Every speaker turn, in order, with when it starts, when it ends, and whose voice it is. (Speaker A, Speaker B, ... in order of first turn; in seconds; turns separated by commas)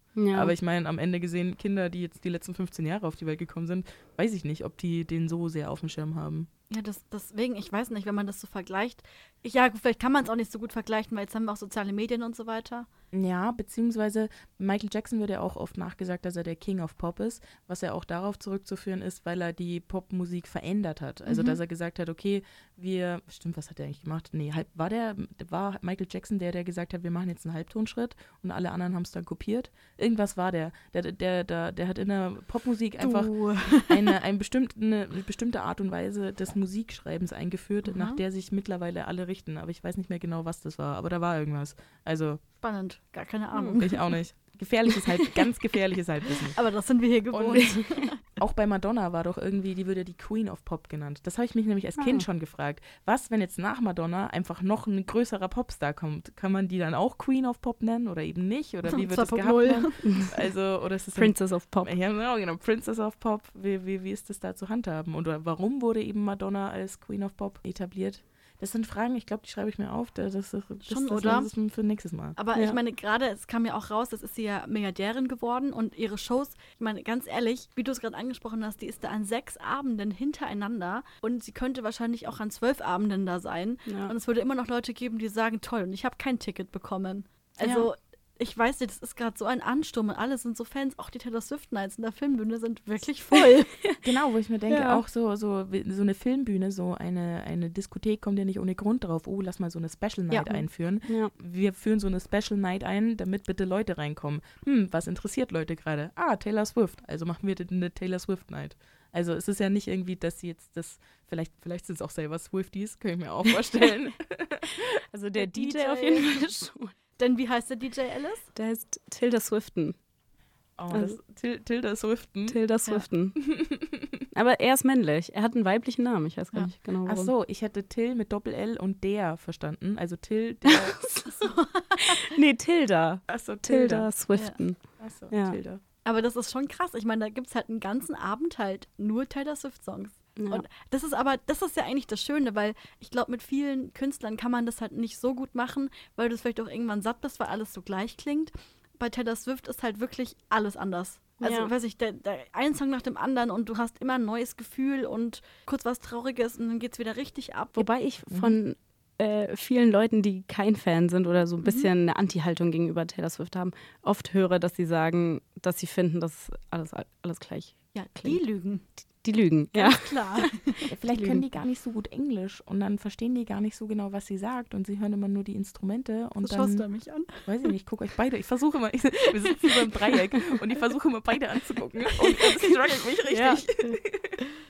Speaker A: 0.2-0.5, Speaker B: 0.3-6.5, Speaker C: 6.7-12.9, Speaker B: 13.1-42.4, Speaker C: 21.3-21.6, Speaker C: 33.0-34.1, Speaker C: 42.6-44.0, Speaker B: 43.8-46.6, Speaker C: 46.5-48.2, Speaker B: 47.3-72.4, Speaker A: 52.0-52.2, Speaker C: 58.9-60.3, Speaker A: 60.0-60.3, Speaker A: 61.1-61.9, Speaker C: 70.8-71.5, Speaker C: 72.4-93.7, Speaker A: 83.8-84.1, Speaker A: 93.3-94.0, Speaker B: 94.0-114.9, Speaker A: 94.7-95.0, Speaker C: 100.3-100.6, Speaker A: 101.1-101.3, Speaker A: 115.1-117.0, Speaker C: 115.3-116.4, Speaker C: 117.2-118.5, Speaker A: 118.5-120.0, Speaker B: 120.8-122.6, Speaker A: 120.9-121.2, Speaker A: 122.5-123.4, Speaker B: 123.4-124.2, Speaker A: 124.3-127.3, Speaker B: 127.0-131.2, Speaker A: 130.6-134.8, Speaker C: 131.4-132.3, Speaker B: 133.3-134.1, Speaker B: 135.0-135.8, Speaker A: 135.3-135.6, Speaker C: 136.0-157.8, Speaker A: 140.4-140.6, Speaker A: 151.4-151.7, Speaker A: 157.8-168.4, Speaker B: 158.3-158.6, Speaker C: 161.6-161.9, Speaker C: 167.9-168.8, Speaker A: 169.2-170.5, Speaker C: 169.7-170.8, Speaker B: 170.9-176.8, Speaker A: 171.1-171.4, Speaker C: 176.4-177.7, Speaker B: 177.4-184.4, Speaker C: 179.4-179.8, Speaker C: 182.1-182.8, Speaker C: 183.3-183.6